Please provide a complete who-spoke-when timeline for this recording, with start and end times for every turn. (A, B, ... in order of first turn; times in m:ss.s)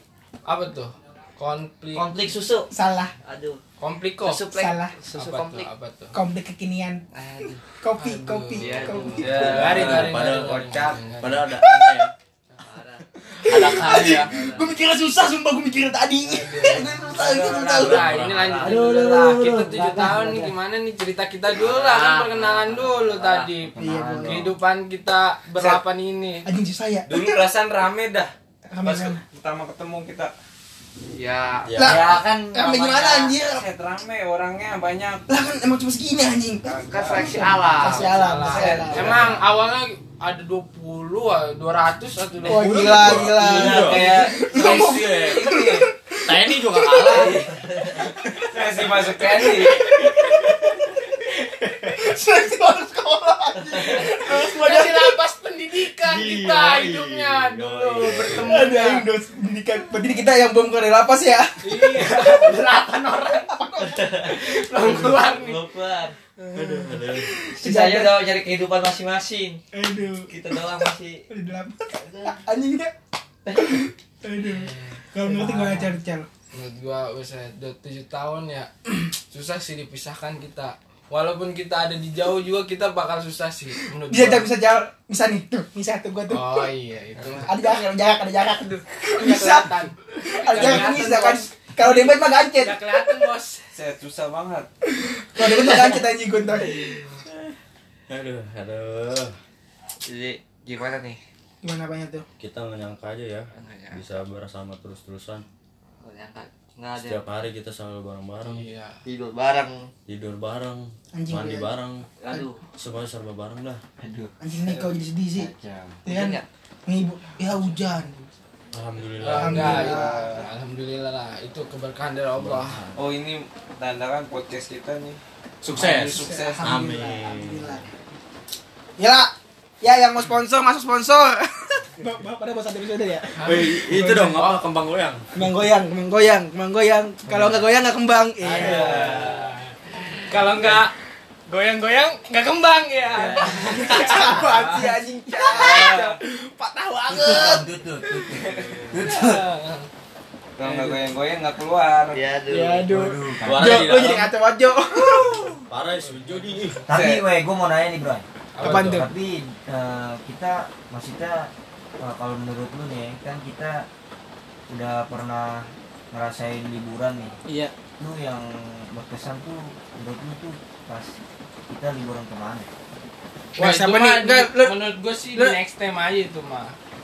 0:00.4-0:02.1 A
0:02.0-0:02.7 B
0:02.7-0:03.1 C
0:03.2-0:03.6 B
0:03.8-0:04.4 A
0:04.2-0:05.7 B
0:04.5-0:04.9 C
0:05.1-0:06.1 A
0:06.1-0:07.0 C
0:07.1-0:07.6 B
0:07.8-0:09.5 C
0:08.0-0:11.4 A
0:08.6-0:09.0 B
0:09.1-0:10.9 D
0:09.2-0:12.1 E
0:11.6-0:12.1 C
0:12.5-0:14.7 B
0:13.3-0:17.8 C
0:13.5-0:14.2 A
0:13.7-0:14.2 D
0:16.3-0:26.5 A
0:16.8-0:17.2 F
0:17.7-0:18.5 E
0:18.2-0:18.7 B
0:18.6-0:20.5 F
0:21.6-0:23.5 B
0:23.7-0:24.5 F
0:23.8-0:24.5 C
0:25.5-0:25.8 D
0:26.4-0:27.4 C
0:27.1-0:30.3 D
0:28.7-0:29.2 C
0:31.1-0:31.7 B
0:31.7-0:32.2 E
0:31.8-0:33.6 C
0:32.7-0:35.2 D
0:35.3-0:39.1 C
0:36.6-0:37.5 D
0:36.9-0:38.0 B
0:37.9-0:43.2 A
0:38.4-0:39.2 D
0:42.4-0:45.5 E
0:42.5-0:47.4 C
0:43.5-0:45.8 D
0:46.2-0:50.7 E
0:48.5-0:49.7 D
0:49.3-0:50.9 C
0:51.6-0:51.9 E
0:51.9-0:55.2 C
0:54.1-0:59.1 A
0:56.0-0:58.6 E
0:58.3-1:02.4 C
1:01.6-1:03.5 A
1:03.4-1:04.0 C
1:03.8-1:04.3 B
1:04.2-1:05.6 A
1:05.3-1:06.1 B
1:06.4-1:08.3 C
1:06.5-1:07.3 E
1:07.7-1:08.0 D
1:08.2-1:09.6 B
1:09.7-1:10.3 C
1:10.3-1:11.1 B
1:11.3-1:12.9 C
1:13.4-1:16.3 C
1:14.4-1:15.9 A
1:16.5-1:18.7 A
1:19.3-1:24.5 A
1:24.1-1:26.7 C
1:26.3-1:27.5 A
1:27.4-1:32.8 C
1:29.2-1:33.6 A
1:33.7-1:34.7 D
1:34.8-1:36.8 C
1:38.1-1:39.3 E
1:40.1-1:41.2 B
1:41.6-1:42.2 C
1:42.4-1:45.4 E
1:43.5-1:44.0 B
1:46.0-1:47.2 B
1:46.9-1:48.7 E
1:48.4-1:49.0 A
1:49.0-1:49.4 F
1:49.4-1:49.9 B
1:50.1-1:52.0 E
1:51.1-1:51.8 C
1:52.2-1:52.6 B
1:52.7-1:53.8 E
1:54.0-1:54.3 F
1:54.4-1:55.5 C
1:55.3-1:56.0 F
1:56.0-1:58.2 C
1:56.1-1:56.4 B
1:58.7-1:59.9 E
1:59.2-2:02.8 A
1:59.3-2:00.3 C
1:59.8-2:00.4 D
2:02.4-2:03.1 E
2:02.9-2:05.2 D
2:05.6-2:07.8 E
2:05.7-2:06.6 D
2:05.8-2:07.8 C
2:09.0-2:13.3 C
2:13.3-2:14.6 A
2:13.4-2:15.2 E
2:15.3-2:19.2 C
2:17.3-2:17.6 F
2:18.6-2:19.1 D
2:18.6-2:20.9 A
2:21.5-2:24.9 A
2:23.5-2:27.7 C
2:25.5-2:26.1 D
2:27.1-2:29.4 F
2:28.9-2:29.9 A
2:30.6-2:32.2 D
2:30.6-2:31.0 A
2:32.1-2:33.9 F
2:32.5-2:35.5 C
2:33.4-2:34.3 E
2:35.7-2:36.8 E
2:36.0-2:37.0 A
2:36.9-2:43.9 F
2:36.9-2:37.2 D
2:38.5-2:39.0 A
2:38.6-2:39.1 C
2:44.7-2:47.4 F
2:48.0-2:52.7 F
2:53.6-2:54.8 C
2:53.6-2:56.8 A